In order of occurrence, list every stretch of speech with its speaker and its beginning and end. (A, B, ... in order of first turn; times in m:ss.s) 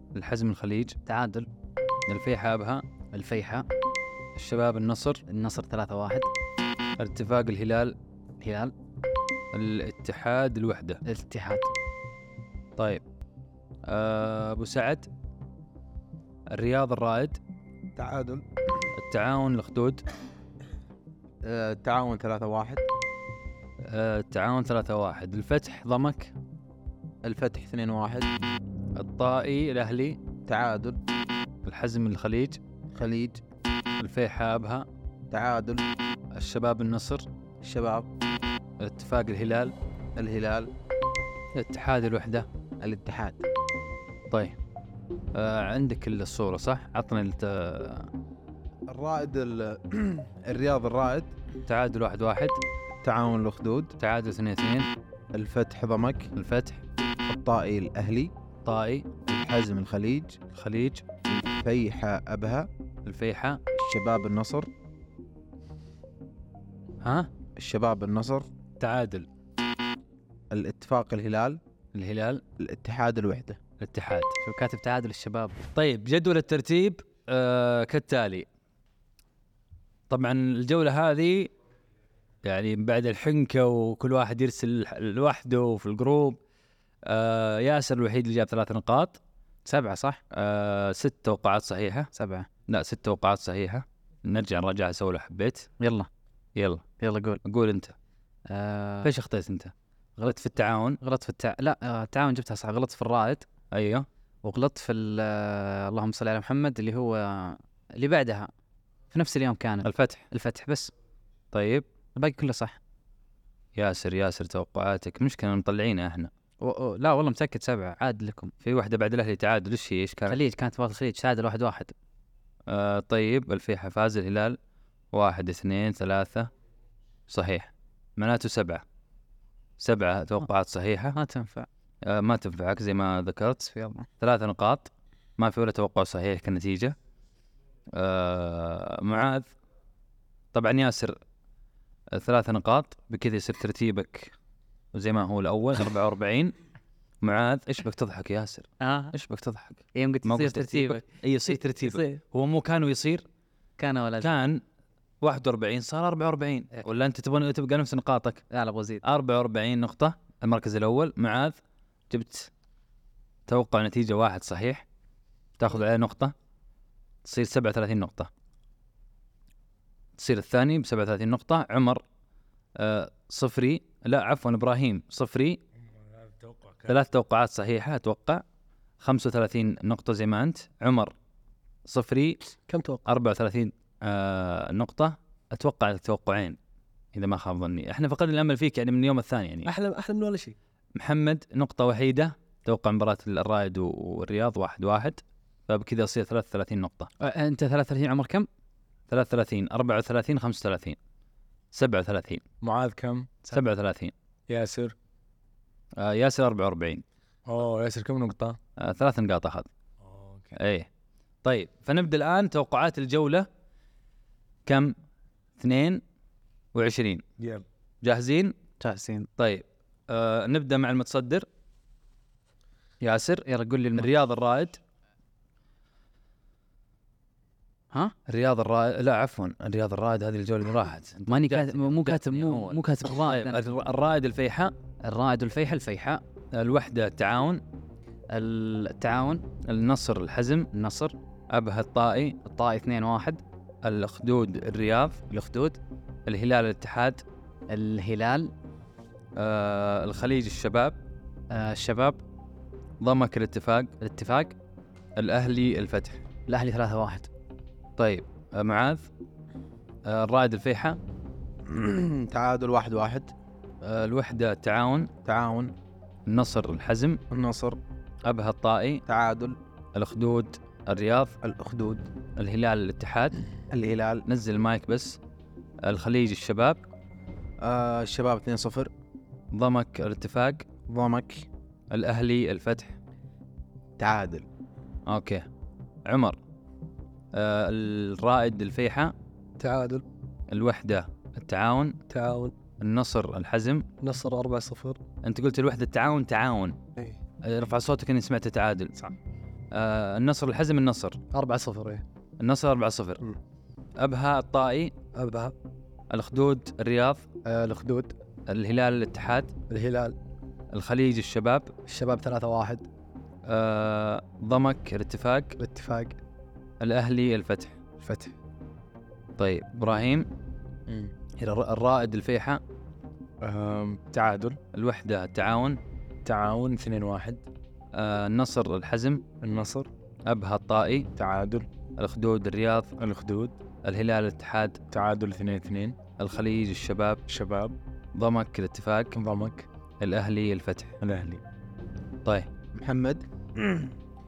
0:00.1-0:01.0 A
0:01.1-0:01.5 B
0:02.1-0:02.8 A
0:03.1-0:03.6 B
0:04.4-0:05.2 A
0:05.3-0:06.3 B
0:07.0-0:08.0 A
0:08.4-0:08.7 B
0:09.5-0:11.0 A
0:11.0-0:11.7 B
0:12.8-0:13.0 A
0:13.9-0:15.1 A
0:16.5-0:17.4 A
0:18.0-0:18.9 C
0:19.0-0:20.0 A
0:21.4-0:22.8 C
0:23.9-0:26.3 A
0:27.2-0:28.3 C
0:29.0-0:30.2 A
0:30.5-0:31.0 C
0:31.6-0:32.6 A
0:32.9-0:33.4 C
0:34.0-0:34.9 A
0:35.3-0:35.8 C
0:36.3-0:37.2 A
0:37.6-0:38.1 C
0:38.8-0:39.7 A
0:40.2-0:40.7 C
0:41.6-0:42.5 A
0:42.8-0:43.4 C
0:45.3-0:48.1 A
0:48.9-0:51.3 C
0:51.7-0:52.6 A
0:53.0-0:54.0 C
0:54.0-0:54.9 A
0:55.3-0:56.3 C
0:56.4-0:56.8 A
0:57.3-0:58.3 C
0:58.6-0:59.1 A
0:59.3-1:00.4 C
1:00.5-1:01.0 A
1:01.3-1:02.7 C
1:03.1-1:03.6 A
1:03.7-1:04.7 C
1:07.0-1:07.3 A
1:07.6-1:08.5 C
1:08.8-1:09.3 A
1:10.5-1:11.6 C
1:11.9-1:12.4 A
1:12.6-1:13.6 C
1:13.8-1:14.4 A
1:14.4-1:15.6 B
1:15.8-1:18.5 A
1:20.1-1:21.5 A
1:22.4-1:26.4 A
1:27.1-1:29.2 A
1:29.7-1:30.2 B
1:30.3-1:32.1 A
1:32.1-1:32.5 B
1:32.7-1:35.7 A
1:35.8-1:36.1 B
1:36.6-1:36.8 A
1:37.0-1:37.4 B
1:37.4-1:38.0 A
1:38.5-1:39.1 B
1:39.0-1:39.7 A
1:40.2-1:41.0 A
1:41.0-1:43.5 B
1:43.7-1:44.1 A
1:44.4-1:48.5 B
1:49.1-1:50.9 B
1:49.8-1:50.3 A
1:51.5-1:51.8 A
1:52.2-1:52.8 B
1:53.8-1:56.3 A
1:56.6-1:58.5 B
1:58.6-2:00.4 A
2:00.3-2:01.9 B
2:02.7-2:04.6 A
2:05.1-2:06.5 A
2:07.3-2:08.8 A
2:09.8-2:11.2 A
2:11.1-2:11.7 B
2:12.0-2:13.6 A
2:13.6-2:14.1 B
2:14.2-2:17.0 A
2:17.9-2:19.5 A
2:20.5-2:21.2 A
2:22.1-2:24.3 A
2:24.9-2:26.6 A
2:27.2-2:33.2 A
2:28.8-2:29.1 B
2:30.0-2:31.0 B
2:31.8-2:32.2 B
2:33.8-2:34.3 B
2:34.2-2:34.6 A
2:35.2-2:38.4 A
2:38.5-2:39.0 B
2:39.0-2:41.6 A
2:42.1-2:42.5 A
2:43.5-2:44.8 A
2:45.6-2:46.3 A
2:47.2-2:48.3 A
2:50.2-2:52.0 A
2:52.8-2:55.6 A
2:56.0-2:57.0 D
2:56.9-2:58.4 A
2:59.0-3:01.1 A
3:01.9-3:02.4 A
3:02.7-3:03.0 E
3:03.1-3:06.6 A
3:07.2-3:09.7 A
3:09.6-3:10.6 E
3:11.0-3:17.1 A
3:17.2-3:18.5 B
3:19.1-3:21.0 A
3:21.7-3:22.4 A
3:22.6-3:23.3 D
3:23.5-3:24.1 A
3:24.5-3:24.9 D
3:26.0-3:27.0 A
3:27.5-3:28.6 D
3:28.8-3:29.7 A
3:30.0-3:30.6 D
3:30.6-3:30.9 A
3:31.4-3:33.5 A
3:34.7-3:35.0 A
3:35.6-3:36.0 A
3:36.7-3:37.2 A
3:38.0-3:38.5 A
3:38.8-3:39.3 B
3:39.4-3:41.5 A
3:43.0-3:43.5 A
3:43.4-3:44.1 B
3:44.0-3:44.8 A
3:48.3-3:54.7 A
3:51.3-3:53.6 B
3:55.0-3:56.2 B
3:56.5-3:57.6 A
3:58.3-3:59.4 B
3:59.7-4:00.7 A
4:00.7-4:01.2 B
4:01.5-4:02.4 A
4:02.4-4:03.4 B
4:03.8-4:05.2 A
4:05.3-4:05.8 B
4:06.3-4:07.2 A
4:07.7-4:08.5 B
4:09.4-4:11.0 A
4:11.5-4:12.2 B
4:13.0-4:13.9 A
4:14.0-4:14.6 B
4:15.2-4:16.2 A
4:16.5-4:17.3 B
4:18.0-4:19.1 A
4:20.1-4:21.0 A
4:21.7-4:23.3 C
4:23.8-4:25.1 A
4:25.2-4:25.7 C
4:26.3-4:27.2 A
4:27.3-4:27.8 C
4:28.2-4:29.0 A
4:29.1-4:29.6 C
4:30.0-4:31.4 A
4:31.4-4:32.1 C
4:32.4-4:33.4 A
4:33.7-4:34.3 C
4:34.3-4:35.2 A
4:35.8-4:36.8 A
4:37.6-4:38.9 C
4:39.5-4:40.7 A
4:40.9-4:41.5 C
4:41.9-4:43.0 A
4:44.0-4:44.5 C
4:45.1-4:45.5 A
4:46.1-4:46.4 A
4:47.3-4:49.1 A
4:49.6-4:50.0 E
4:50.5-4:52.0 A
4:52.1-4:52.5 E
4:52.8-4:53.9 A
4:54.0-4:55.0 E
4:55.2-4:56.8 A
4:57.4-4:59.0 A
4:59.7-5:01.2 A
5:01.3-5:02.0 E
5:02.4-5:03.2 A
5:04.0-5:04.9 A
5:05.1-5:05.5 E
5:06.1-5:07.3 A
5:07.4-5:08.2 E
5:08.5-5:09.5 A
5:09.7-5:10.2 E
5:10.7-5:11.7 A
5:11.9-5:12.9 E
5:13.4-5:15.6 A
5:15.6-5:16.2 E
5:16.8-5:17.8 A
5:18.0-5:18.3 E
5:19.4-5:20.3 A
5:20.9-5:21.1 D
5:21.4-5:22.6 A
5:23.4-5:24.6 D
5:24.7-5:25.8 A
5:26.2-5:27.4 D
5:27.9-5:29.2 A
5:29.4-5:29.9 D
5:30.3-5:31.1 A
5:31.2-5:31.7 D
5:32.0-5:33.0 A
5:33.0-5:33.6 D
5:33.8-5:34.8 A
5:34.9-5:36.0 D
5:36.2-5:37.2 A
5:37.3-5:37.8 D
5:38.2-5:39.2 A
5:39.1-5:39.7 D
5:40.0-5:41.0 A
5:41.0-5:41.4 D
5:42.7-5:43.9 C